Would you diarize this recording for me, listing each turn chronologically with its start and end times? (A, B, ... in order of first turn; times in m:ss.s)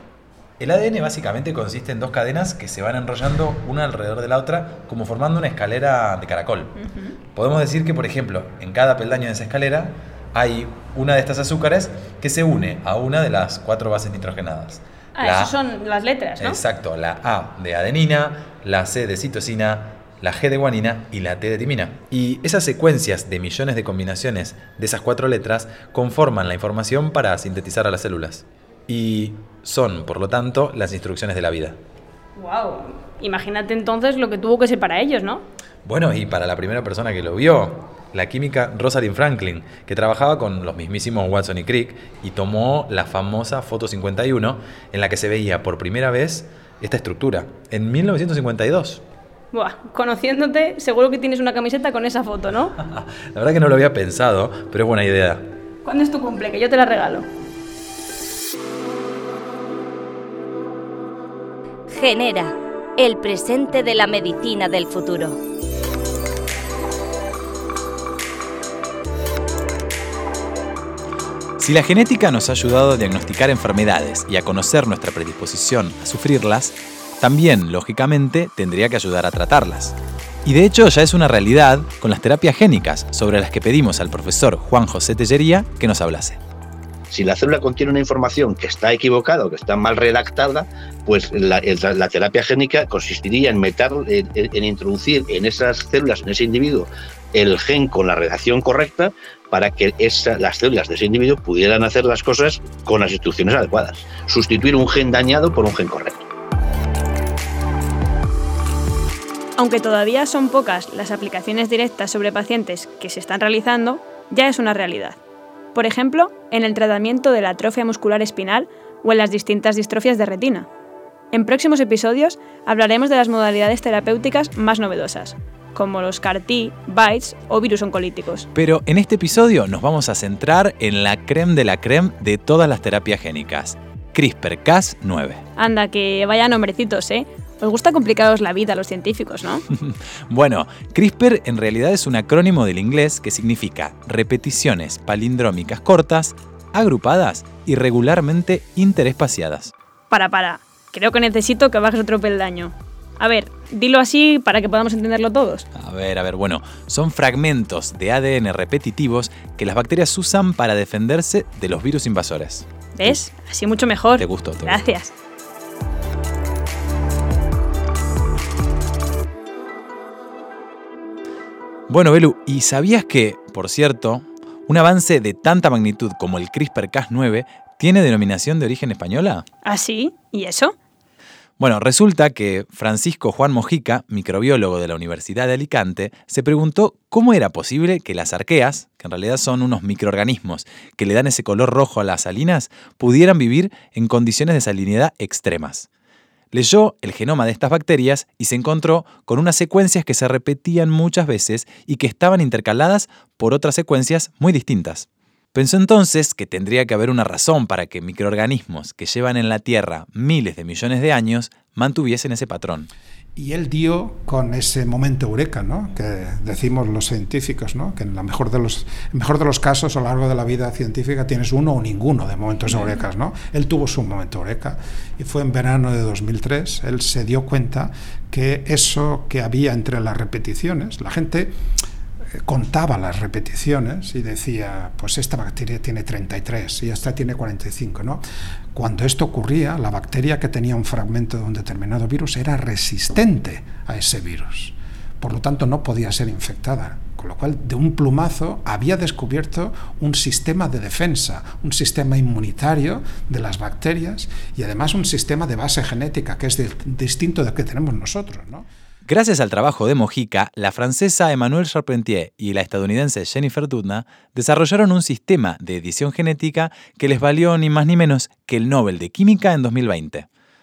0:00.6-0:06.8 A
0:06.8-0:07.1 B
0:07.4-0:15.6 A
0:15.2-0:16.6 B
0:16.4-0:31.8 A
0:32.4-0:35.4 B
0:35.8-0:49.0 A
0:49.5-0:52.8 B
0:52.8-0:55.5 A
0:55.8-0:57.3 B
1:02.0-1:05.3 C
1:11.6-1:26.4 A
1:27.1-1:46.2 D
1:49.6-1:55.2 B
1:55.7-2:00.7 B
2:01.3-2:08.5 B
2:08.6-2:15.4 A
2:15.6-2:19.6 B
2:19.7-2:29.7 A
2:30.1-2:35.7 B
2:35.8-2:43.2 A
2:43.0-2:45.1 B
2:44.2-2:44.8 A
2:51.9-2:59.5 A
2:59.6-3:00.8 B
3:01.6-3:15.9 A
3:16.5-3:32.9 A
3:33.4-3:51.6 E
3:52.4-3:58.2 E
3:58.7-4:18.7 E
4:19.1-4:30.3 A